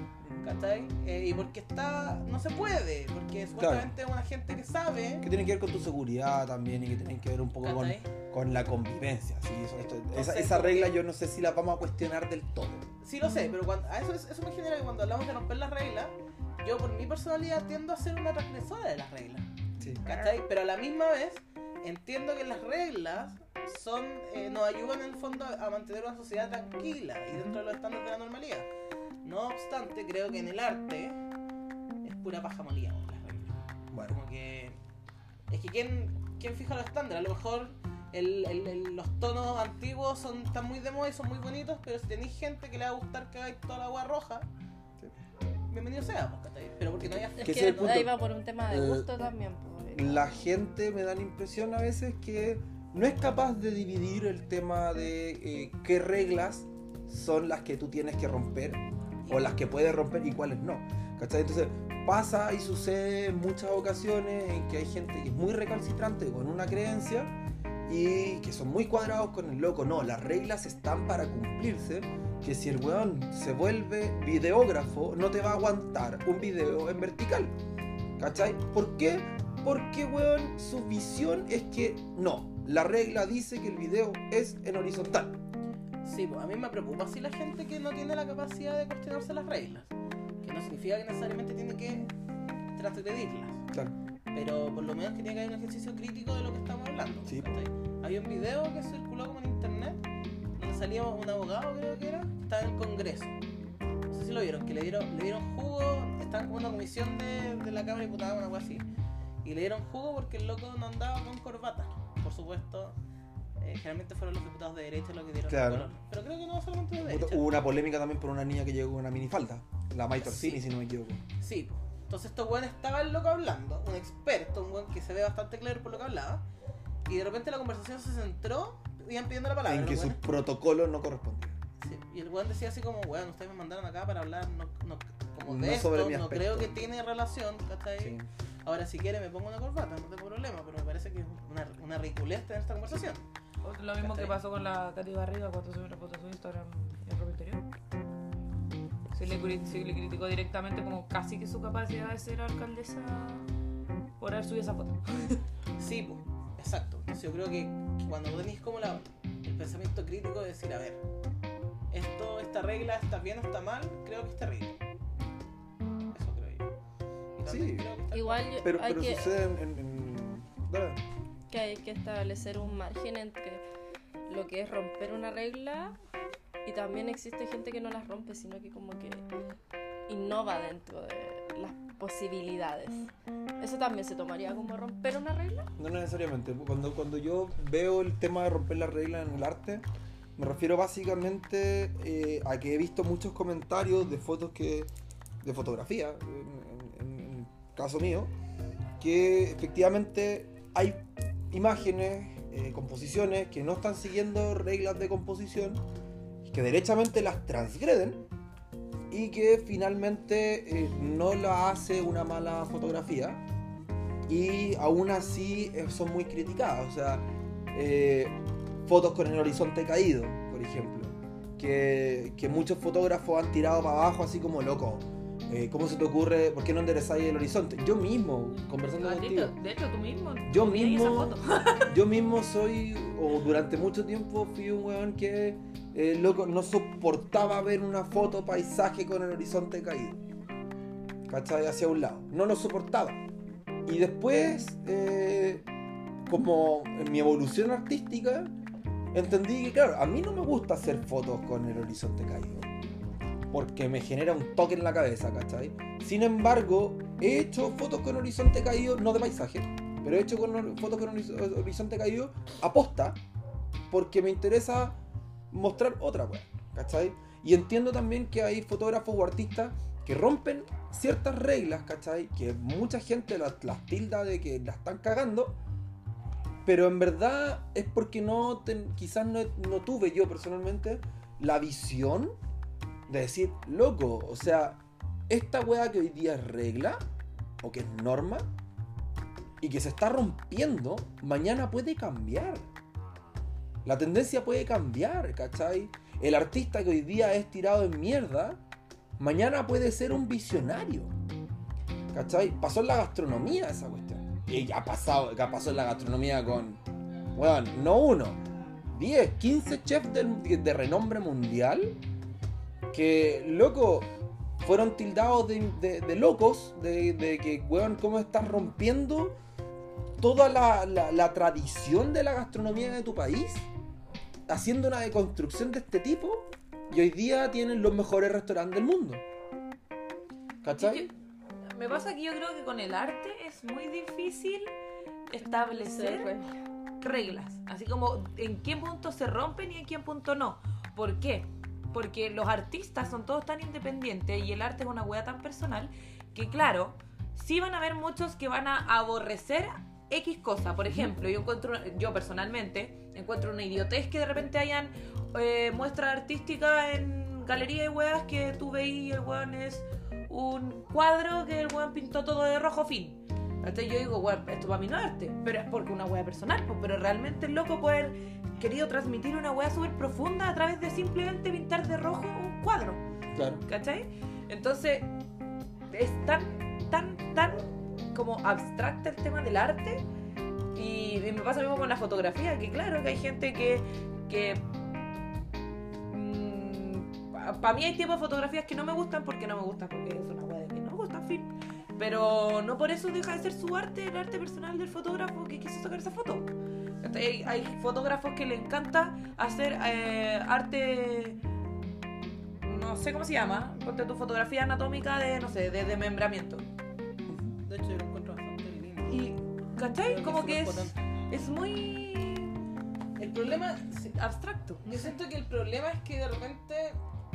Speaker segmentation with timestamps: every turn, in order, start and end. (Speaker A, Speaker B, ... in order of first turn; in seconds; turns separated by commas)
Speaker A: 0.4-5.3, Speaker B: 3.6-3.9, Speaker B: 5.2-12.8, Speaker A: 7.6-8.1, Speaker A: 9.8-11.0, Speaker A: 13.0-19.5, Speaker B: 19.8-20.3, Speaker A: 20.0-28.7, Speaker B: 27.3-27.6, Speaker A: 29.2-31.2, Speaker A: 32.0-34.8, Speaker B: 33.9-34.2, Speaker A: 35.5-44.5, Speaker A: 45.7-48.1, Speaker B: 47.3-48.1, Speaker C: 47.4-50.3, Speaker B: 48.7-49.2, Speaker B: 49.9-67.3, Speaker A: 59.2-59.5, Speaker B: 67.8-77.5, Speaker B: 78.2-85.4, Speaker A: 86.0-92.1, Speaker A: 92.7-93.6, Speaker A: 94.3-100.0, Speaker B: 97.3-97.5, Speaker A: 100.6-103.3, Speaker A: 104.1-108.8, Speaker A: 109.4-113.0, Speaker A: 113.6-117.5, Speaker B: 115.5-115.9, Speaker B: 117.0-121.2, Speaker A: 120.2-120.6, Speaker A: 121.4-126.4, Speaker A: 127.1-130.3, Speaker B: 129.6-131.6, Speaker A: 131.8-143.2, Speaker B: 135.4-136.9, Speaker B: 138.0-138.3, Speaker D: 143.6-147.7, Speaker A: 144.0-144.3, Speaker D: 149.1-153.5, Speaker D: 154.2-155.4, Speaker A: 155.8-161.0, Speaker A: 161.9-164.8, Speaker A: 166.1-166.7, Speaker A: 167.3-168.5, Speaker B: 167.5-167.9, Speaker C: 168.1-169.3, Speaker B: 168.6-171.0, Speaker C: 171.5-173.6, Speaker C: 174.3-176.0, Speaker C: 176.6-179.2, Speaker C: 180.1-185.7, Speaker B: 185.8-189.8, Speaker B: 190.4-194.9, Speaker B: 195.4-198.3, Speaker B: 199.0-205.8, Speaker B: 206.4-208.2, Speaker B: 209.1-213.4, Speaker B: 214.3-229.5, Speaker D: 229.0-231.9, Speaker B: 230.5-240.2, Speaker B: 241.3-243.2, Speaker B: 243.8-245.7, Speaker B: 246.2-248.5, Speaker B: 249.1-252.7, Speaker B: 253.5-263.2, Speaker B: 263.9-265.0, Speaker B: 265.5-275.6, Speaker B: 276.6-282.3, Speaker B: 283.1-287.0, Speaker B: 287.6-288.5, Speaker B: 289.6-292.7, Speaker B: 293.8-298.6, Speaker B: 299.2-301.1, Speaker B: 302.1-306.8, Speaker B: 307.3-312.0, Speaker B: 312.9-314.1, Speaker B: 314.6-319.4, Speaker B: 320.2-323.7, Speaker B: 324.5-329.2, Speaker B: 330.6-331.1, Speaker D: 330.8-331.1, Speaker D: 331.7-334.7, Speaker D: 335.3-336.3, Speaker C: 335.4-336.5, Speaker D: 337.0-373.0, Speaker B: 373.3-373.6, Speaker D: 373.6-375.1, Speaker D: 375.9-380.0, Speaker D: 380.7-384.6, Speaker D: 386.1-396.5, Speaker D: 397.0-401.4, Speaker D: 402.6-406.6, Speaker B: 407.3-407.6, Speaker A: 407.6-409.3, Speaker D: 409.1-412.5, Speaker A: 410.0-410.9, Speaker A: 413.2-414.2, Speaker D: 413.4-413.6, Speaker D: 414.1-415.1, Speaker A: 414.9-417.0